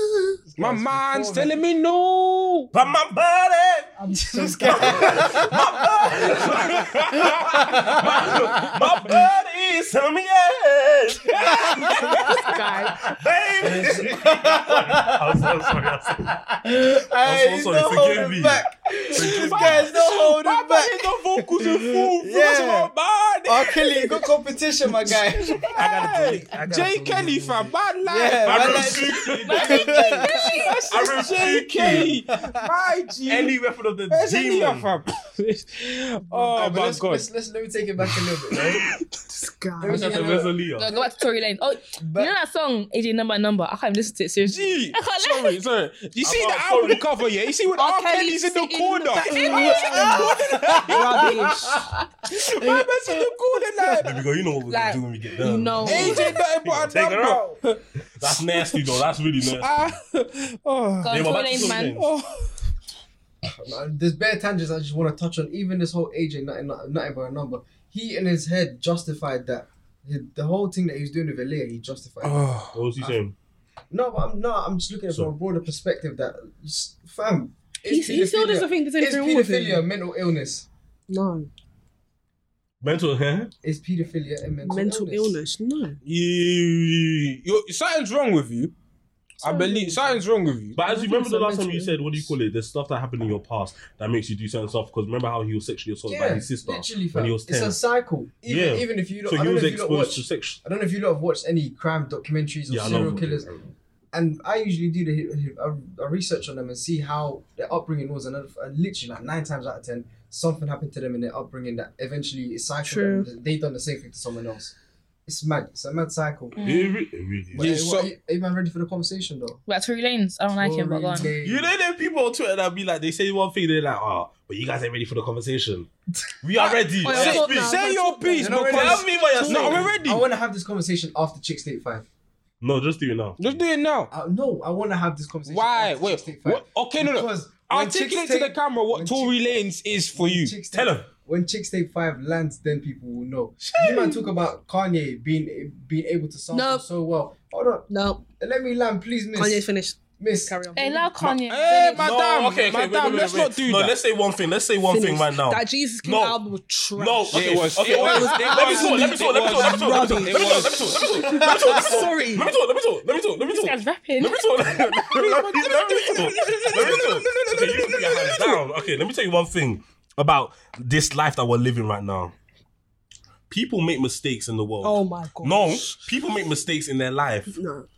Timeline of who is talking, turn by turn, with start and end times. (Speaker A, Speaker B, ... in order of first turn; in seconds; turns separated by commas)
Speaker A: 0.4-1.6, Speaker B: 0.6-2.7, Speaker C: 2.7-3.9, Speaker D: 4.0-5.2, Speaker A: 4.2-8.8, Speaker C: 4.6-12.5, Speaker B: 6.7-7.2, Speaker B: 11.4-11.9, Speaker A: 11.4-12.5, Speaker E: 12.2-13.0, Speaker C: 13.0-16.4, Speaker A: 13.6-22.9, Speaker C: 17.2-18.6, Speaker B: 19.1-24.2, Speaker C: 19.1-19.9, Speaker A: 23.4-26.5, Speaker B: 25.0-33.5, Speaker C: 25.8-27.7, Speaker A: 28.0-30.7, Speaker C: 28.4-30.2, Speaker E: 29.4-31.4, Speaker C: 30.9-32.2, Speaker A: 31.8-32.6, Speaker C: 33.3-34.9, Speaker B: 34.1-37.2, Speaker A: 36.5-38.8, Speaker C: 38.1-38.8, Speaker D: 39.3-40.4, Speaker A: 39.8-41.0, Speaker C: 39.8-40.9, Speaker E: 40.8-45.6, Speaker A: 42.0-42.3, Speaker B: 44.4-51.6, Speaker C: 46.2-47.1, Speaker D: 47.7-51.8, Speaker E: 49.4-49.9, Speaker A: 50.6-51.2, Speaker B: 52.3-54.2, Speaker C: 54.0-57.4, Speaker E: 54.7-56.4, Speaker B: 55.8-58.8, Speaker C: 58.1-59.9, Speaker B: 59.4-62.6, Speaker E: 61.0-62.0, Speaker C: 61.1-62.1, Speaker A: 63.5-73.2, Speaker B: 72.2-72.8, Speaker C: 72.7-73.3, Speaker A: 73.9-80.7, Speaker D: 77.8-79.9, Speaker D: 81.1-81.5, Speaker C: 82.8-83.5, Speaker A: 83.6-85.4, Speaker D: 84.6-86.0, Speaker B: 86.0-88.7, Speaker D: 89.4-90.2, Speaker B: 89.4-90.8, Speaker C: 90.7-97.8, Speaker D: 90.8-92.3, Speaker A: 96.1-103.5, Speaker C: 98.5-100.6, Speaker C: 102.7-103.6, Speaker A: 104.1-114.7, Speaker D: 112.8-113.3, Speaker A: 115.2-116.6, Speaker E: 116.6-117.0, Speaker C: 116.6-117.7, Speaker A: 117.5-119.6, Speaker B: 117.5-118.1, Speaker E: 119.7-121.3, Speaker A: 120.6-121.7, Speaker C: 121.4-125.9, Speaker C: 126.4-127.8, Speaker D: 126.6-128.8, Speaker B: 127.0-130.2, Speaker A: 128.4-132.1, Speaker C: 128.6-130.0, Speaker C: 132.6-133.6, Speaker B: 133.4-134.1, Speaker A: 134.1-139.4, Speaker B: 135.4-140.5, Speaker A: 140.1-150.6, Speaker C: 140.7-141.1, Speaker B: 143.6-144.3, Speaker D: 146.5-146.9, Speaker D: 147.9-148.2, Speaker D: 149.3-151.1, Speaker E: 150.7-152.1, Speaker B: 151.2-153.9, Speaker C: 151.9-172.3, Speaker D: 154.9-162.5, Speaker B: 157.3-161.0, Speaker E: 163.4-164.5, Speaker B: 165.0-168.6, Speaker D: 166.2-168.3, Speaker C: 173.5-177.6, Speaker D: 174.8-176.0, Speaker D: 177.5-177.9